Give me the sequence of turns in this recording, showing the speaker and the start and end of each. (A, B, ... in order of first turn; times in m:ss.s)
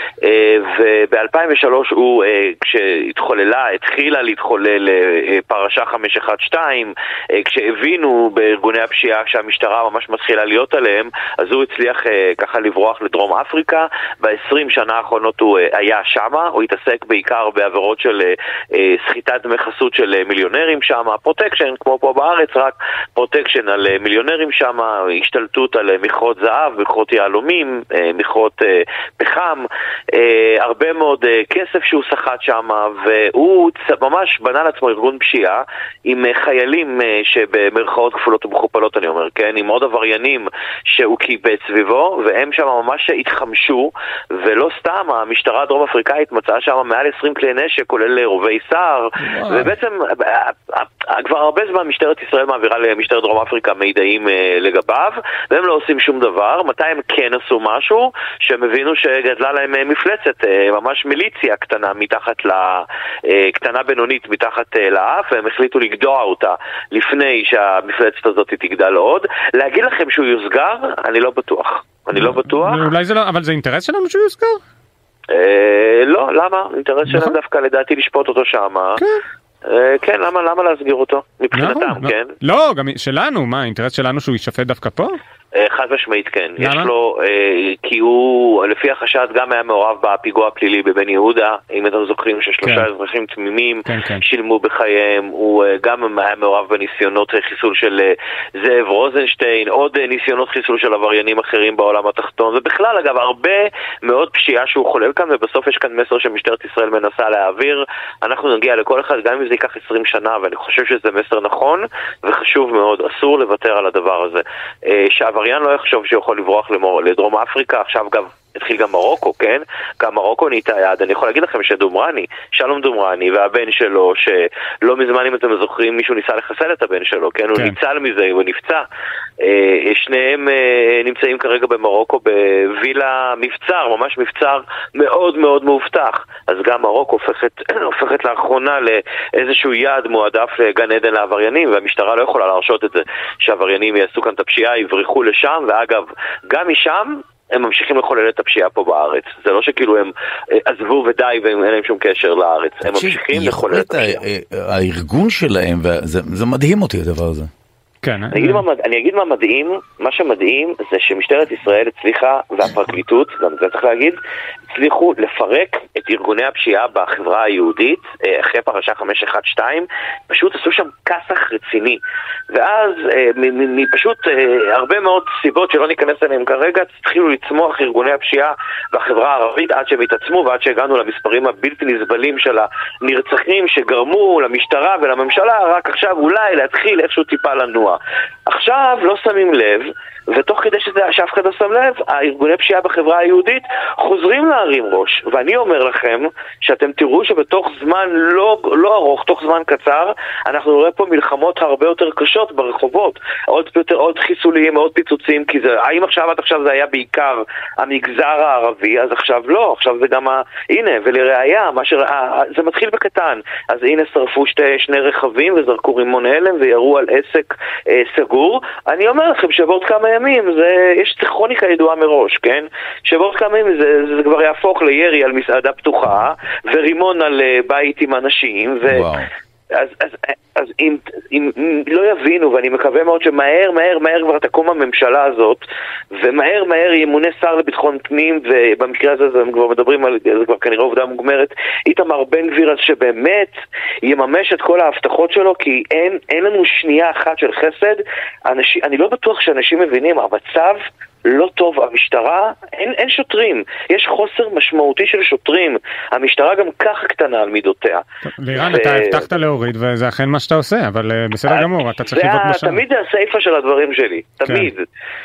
0:00.2-1:12.9 A
0:49.2-0:49.7 B
1:12.1-1:14.6 B
1:15.3-1:19.0 A
1:17.1-1:17.3 B
1:19.6-1:22.3 A
1:21.5-1:25.1 B
1:25.6-2:08.8 A
1:26.6-1:26.9 B
1:33.8-1:34.2 B
2:09.4-2:34.2 A
2:32.8-2:37.5 C
2:38.0-2:38.6 B
2:38.3-2:44.2 A
2:44.7-2:52.0 A
2:52.5-3:49.1 A
3:48.8-3:49.3 C
3:49.7-4:18.0 A
4:18.2-4:22.8 B
4:18.5-4:19.3 A
4:21.5-4:24.8 A